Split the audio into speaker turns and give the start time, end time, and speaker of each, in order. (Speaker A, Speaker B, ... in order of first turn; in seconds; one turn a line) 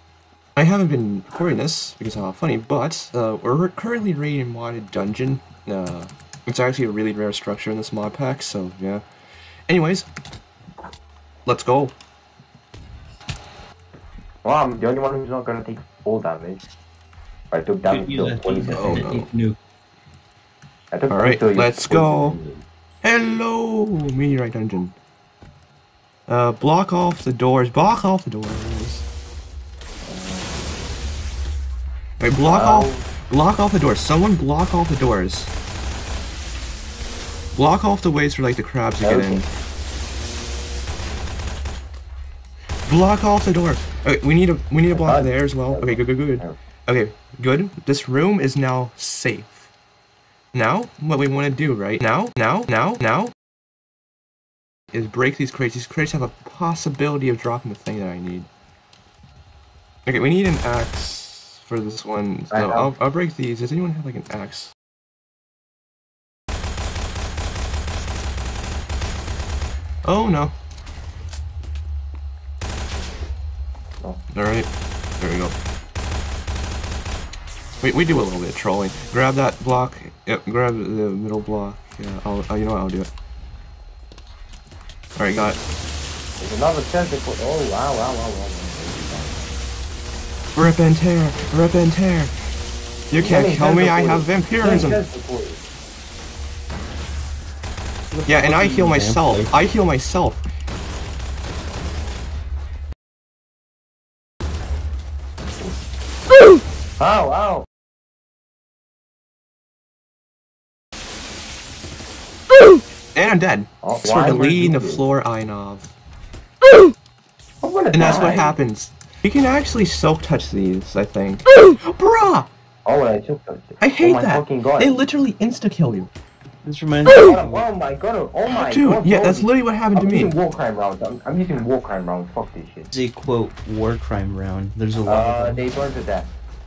Speaker A: 0.6-9.0
Speaker A: 9.7-10.1
Speaker A: 11.4-11.9
Speaker B: 14.4-16.6
Speaker B: 17.5-19.2
Speaker C: 17.8-19.6
Speaker A: 18.7-19.3
Speaker B: 20.9-22.6
Speaker A: 21.1-22.4
Speaker A: 23.0-24.9
Speaker A: 26.3-29.1
Speaker B: 30.0-30.7
Speaker A: 32.2-35.5
Speaker B: 32.4-33.1
Speaker A: 37.5-39.5
Speaker B: 39.0-39.4
Speaker A: 42.9-49.7
Speaker B: 44.9-46.6
Speaker A: 50.5-53.3
Speaker A: 54.9-58.5
Speaker A: 60.0-64.7
Speaker B: 62.5-62.9
Speaker A: 70.0-70.5
Speaker A: 74.3-74.7
Speaker A: 75.2-75.5
Speaker A: 77.8-83.1
Speaker A: 85.2-85.6
Speaker B: 86.4-89.5
Speaker A: 90.5-92.3
Speaker A: 93.1-95.0
Speaker B: 93.2-95.6
Speaker C: 98.1-99.5
Speaker A: 98.3-100.4
Speaker B: 107.0-107.7
Speaker A: 113.1-115.9
Speaker B: 113.8-115.0
Speaker B: 117.6-118.5
Speaker A: 117.9-122.5
Speaker B: 122.8-125.0
Speaker A: 123.8-126.1
Speaker C: 126.6-127.7
Speaker B: 127.1-132.9
Speaker A: 128.5-130.3
Speaker C: 132.9-135.7
Speaker B: 135.1-136.3